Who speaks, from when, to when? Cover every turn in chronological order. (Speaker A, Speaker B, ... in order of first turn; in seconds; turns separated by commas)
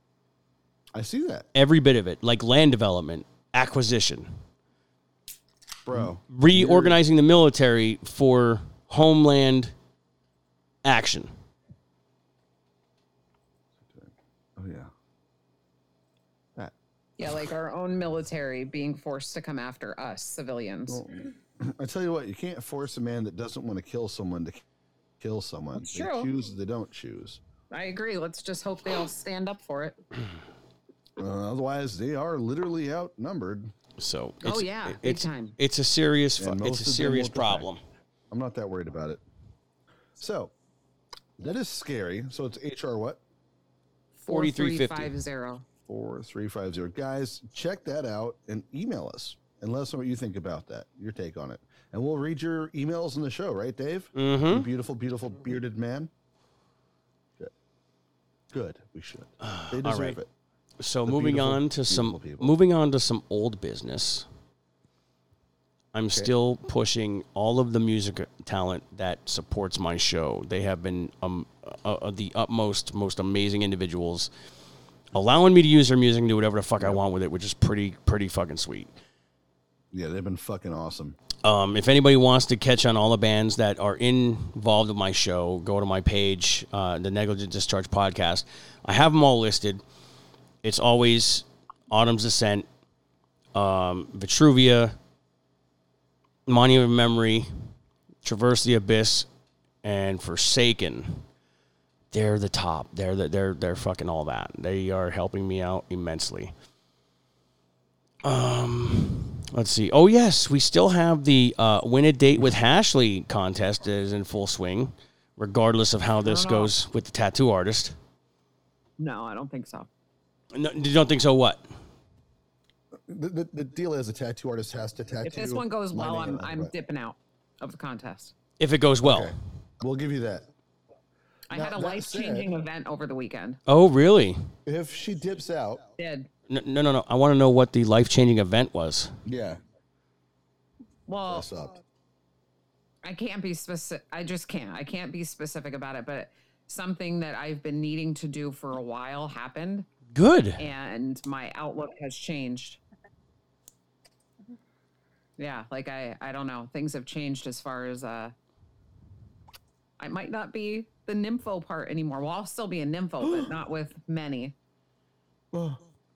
Speaker A: 0.9-1.5, Speaker B: 1.6-4.3, Speaker A: 5.8-7.0, Speaker B: 6.0-9.7, Speaker B: 10.8-11.3, Speaker A: 13.8-14.9, Speaker C: 17.2-21.0, Speaker A: 20.9-24.6, Speaker A: 25.2-27.4, Speaker C: 25.8-26.3, Speaker C: 27.7-30.0, Speaker A: 31.2-33.7, Speaker B: 34.0-37.8, Speaker C: 34.4-35.6, Speaker A: 36.4-37.7, Speaker A: 38.3-39.2, Speaker A: 40.2-40.5, Speaker A: 41.4-43.2, Speaker C: 44.2-45.6, Speaker B: 44.3-45.1, Speaker A: 45.9-56.1, Speaker B: 54.2-54.7, Speaker A: 58.5-60.3, Speaker B: 59.4-60.2, Speaker B: 60.8-64.3, Speaker A: 61.1-62.5, Speaker B: 65.9-74.3, Speaker B: 75.1-78.9, Speaker A: 79.9-81.2, Speaker B: 81.4-89.8, Speaker B: 90.6-92.7, Speaker B: 93.5-95.0, Speaker B: 96.5-97.5, Speaker B: 98.2-99.3, Speaker B: 99.8-101.2, Speaker B: 102.1-106.5, Speaker B: 108.2-118.0, Speaker C: 116.2-116.7, Speaker C: 119.0-119.9, Speaker B: 120.5-121.7, Speaker A: 123.1-126.7, Speaker C: 125.2-128.3, Speaker B: 128.6-129.3, Speaker A: 129.0-130.5, Speaker C: 131.5-133.6, Speaker A: 131.5-132.5, Speaker B: 133.7-134.4, Speaker A: 134.7-135.8, Speaker C: 136.0-136.3, Speaker B: 136.5-139.2, Speaker A: 139.3-139.6, Speaker C: 141.1-141.5, Speaker A: 141.3-141.8, Speaker C: 143.0-149.9, Speaker B: 150.2-150.6, Speaker C: 150.6-152.8, Speaker C: 155.4-158.3, Speaker C: 160.0-164.6, Speaker A: 163.2-163.5, Speaker A: 165.5-165.8